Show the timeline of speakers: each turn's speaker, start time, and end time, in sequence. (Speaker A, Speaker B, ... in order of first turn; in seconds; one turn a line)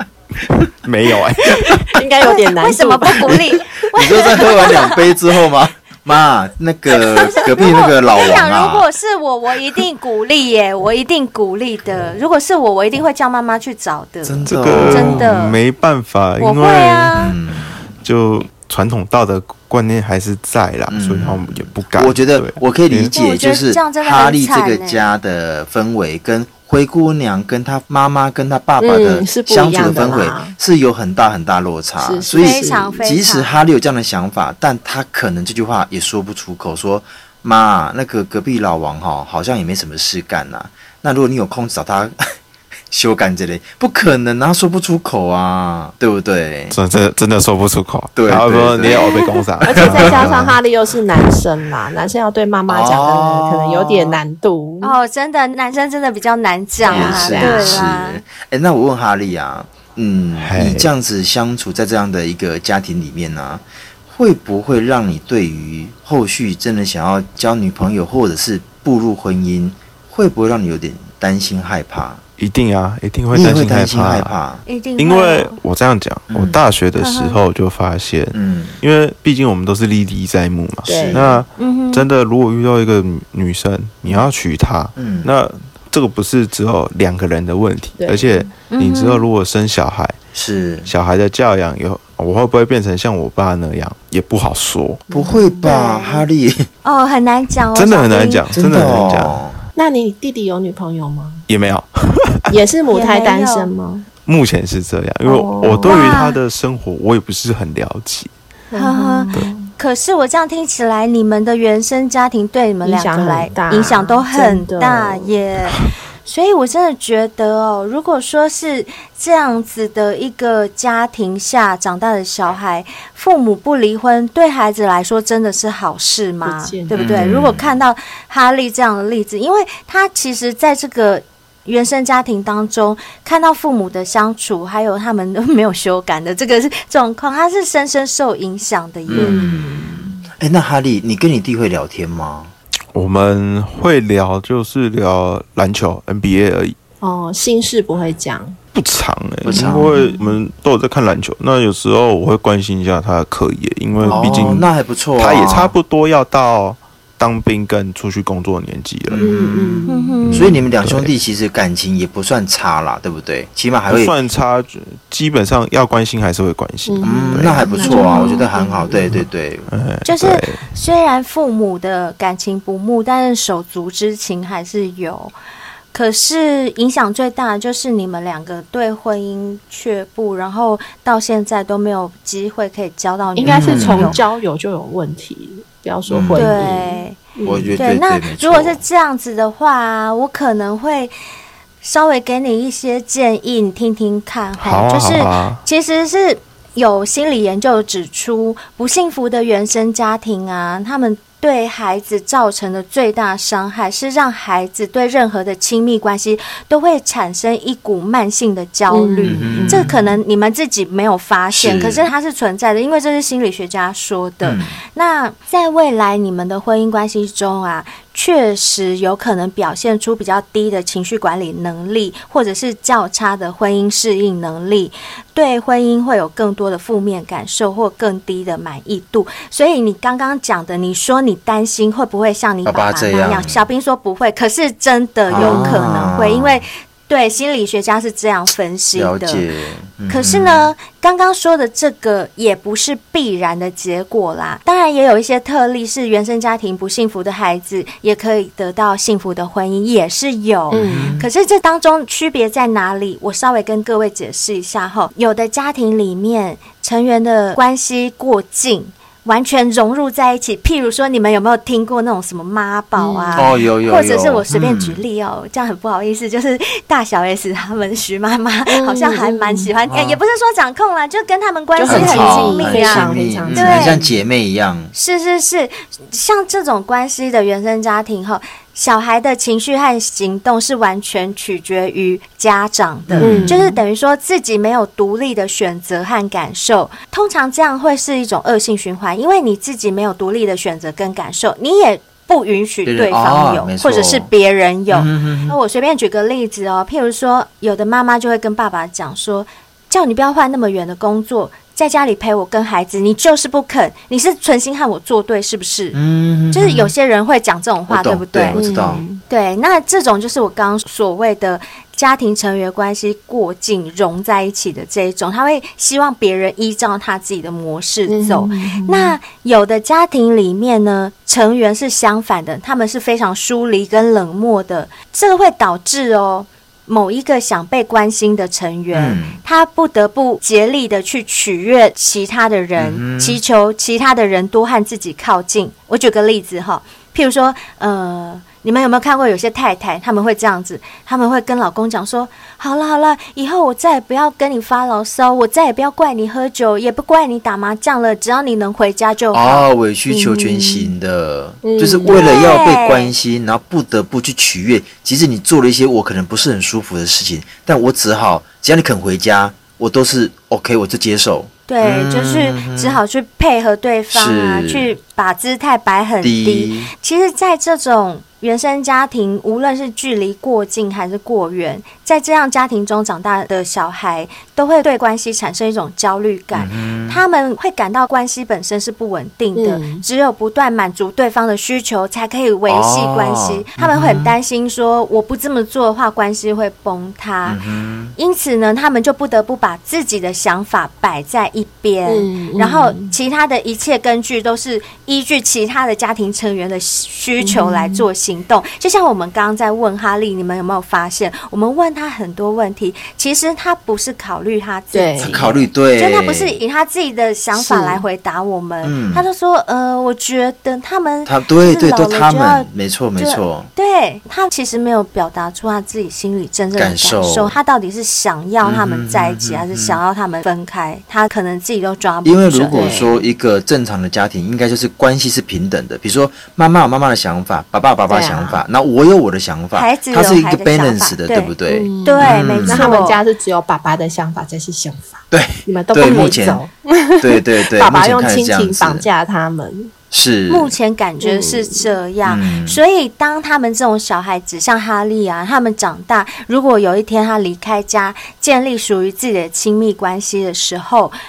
Speaker A: 0.4-1.9
Speaker B: 1.5-5.1
Speaker C: 1.9-3.6
Speaker D: 3.9-8.8
Speaker B: 6.9-15.6
Speaker D: 14.2-15.3
Speaker A: 14.4-17.1
Speaker B: 16.4-17.3
Speaker D: 17.1-17.8
Speaker A: 18.0-23.1
Speaker D: 20.9-42.2
Speaker B: 23.1-25.1
Speaker C: 28.8-30.6
Speaker C: 32.0-33.0
Speaker B: 32.4-33.6
Speaker D: 42.9-46.8
Speaker A: 46.7-50.6
Speaker D: 48.1-49.1
Speaker C: 49.6-54.9
Speaker D: 49.6-50.4
Speaker D: 52.7-54.2
Speaker B: 54.8-58.2
Speaker C: 56.8-57.9
Speaker D: 56.9-72.2
Speaker A: 60.4-60.9
Speaker A: 72.4-74.3
Speaker D: 73.3-74.6
Speaker B: 74.7-75.6
Speaker A: 75.0-90.2
Speaker D: 76.3-76.6
Speaker B: 77.0-77.4
Speaker D: 78.3-78.8
Speaker D: 80.8-81.4
Speaker C: 80.8-81.4
Speaker B: 81.6-82.1
Speaker D: 85.0-85.3
Speaker C: 88.0-88.5
Speaker B: 88.7-89.2
Speaker D: 90.3-90.9
Speaker A: 90.8-95.0
Speaker C: 95.1-95.7
Speaker D: 95.1-96.7
Speaker B: 95.6-96.2
Speaker B: 96.8-98.4
Speaker A: 97.7-99.5
Speaker D: 98.5-99.5
Speaker C: 99.7-101.5
Speaker A: 101.5-102.5
Speaker C: 102.5-104.1
Speaker B: 102.9-103.7
Speaker A: 104.2-108.3
Speaker C: 105.2-106.1
Speaker B: 105.8-106.4
Speaker C: 108.7-109.7
Speaker B: 108.7-139.4
Speaker C: 112.8-115.3
Speaker C: 126.4-127.2
Speaker D: 126.9-127.8
Speaker D: 139.1-142.5
Speaker C: 139.1-140.2
Speaker A: 142.9-146.8
Speaker C: 147.0-148.6
Speaker A: 148.7-159.3
Speaker D: 149.4-150.0
Speaker C: 149.5-150.2
Speaker C: 154.0-154.6
Speaker D: 154.1-155.7
Speaker D: 159.1-164.1
Speaker C: 159.2-160.2
Speaker B: 159.9-160.5
Speaker A: 160.2-161.1
Speaker A: 163.9-167.6
Speaker C: 166.9-169.2
Speaker D: 167.0-169.7
Speaker B: 167.7-168.4
Speaker A: 169.1-170.7
Speaker B: 170.0-175.3
Speaker B: 175.9-184.2
Speaker C: 183.3-187.8
Speaker D: 183.4-184.2
Speaker D: 186.1-186.6
Speaker B: 186.3-187.2
Speaker D: 187.4-188.8
Speaker B: 187.8-191.1
Speaker B: 191.8-239.4
Speaker A: 194.6-195.6
Speaker C: 208.9-210.1
Speaker D: 209.2-209.9
Speaker D: 211.5-212.1
Speaker D: 214.4-214.8
Speaker D: 232.7-233.6
Speaker D: 235.3-236.6
Speaker C: 235.3-235.8
Speaker D: 238.9-240.7
Speaker B: 240.1-274.0
Speaker C: 250.7-251.2
Speaker D: 250.8-251.3
Speaker C: 262.9-263.6
Speaker D: 263.4-265.0
Speaker C: 268.7-269.7
Speaker D: 269.9-270.2
Speaker C: 271.8-274.2
Speaker D: 271.8-274.9
Speaker B: 274.9-306.0
Speaker D: 283.1-283.6
Speaker C: 283.2-283.8
Speaker D: 292.9-294.3
Speaker D: 294.9-295.6
Speaker D: 305.9-306.9
Speaker B: 306.5-308.6
Speaker D: 307.9-309.0
Speaker C: 308.5-309.2
Speaker B: 309.3-349.7
Speaker C: 318.1-319.2
Speaker D: 328.9-329.4
Speaker D: 332.8-333.4
Speaker D: 349.3-363.0
Speaker C: 350.1-350.9
Speaker C: 351.6-352.5
Speaker B: 352.1-353.1
Speaker B: 361.7-387.6
Speaker D: 364.1-364.9
Speaker D: 366.2-366.9
Speaker D: 376.5-377.2
Speaker C: 379.5-380.0
Speaker D: 382.7-384.3
Speaker D: 387.4-388.1
Speaker B: 388.1-423.1
Speaker C: 392.1-393.1
Speaker C: 397.4-398.1
Speaker C: 404.9-405.5
Speaker D: 405.2-406.6
Speaker C: 407.5-408.0
Speaker D: 408.8-409.2
Speaker D: 411.2-413.7
Speaker D: 416.7-417.6
Speaker D: 418.6-420.0
Speaker D: 422.2-433.0
Speaker C: 422.7-423.2
Speaker C: 428.1-428.6
Speaker B: 429.7-431.5
Speaker C: 431.7-439.9
Speaker B: 432.0-433.2
Speaker D: 435.3-436.6
Speaker D: 437.2-439.1
Speaker D: 440.1-440.7
Speaker B: 440.5-451.1
Speaker C: 441.2-441.9
Speaker D: 442.2-442.8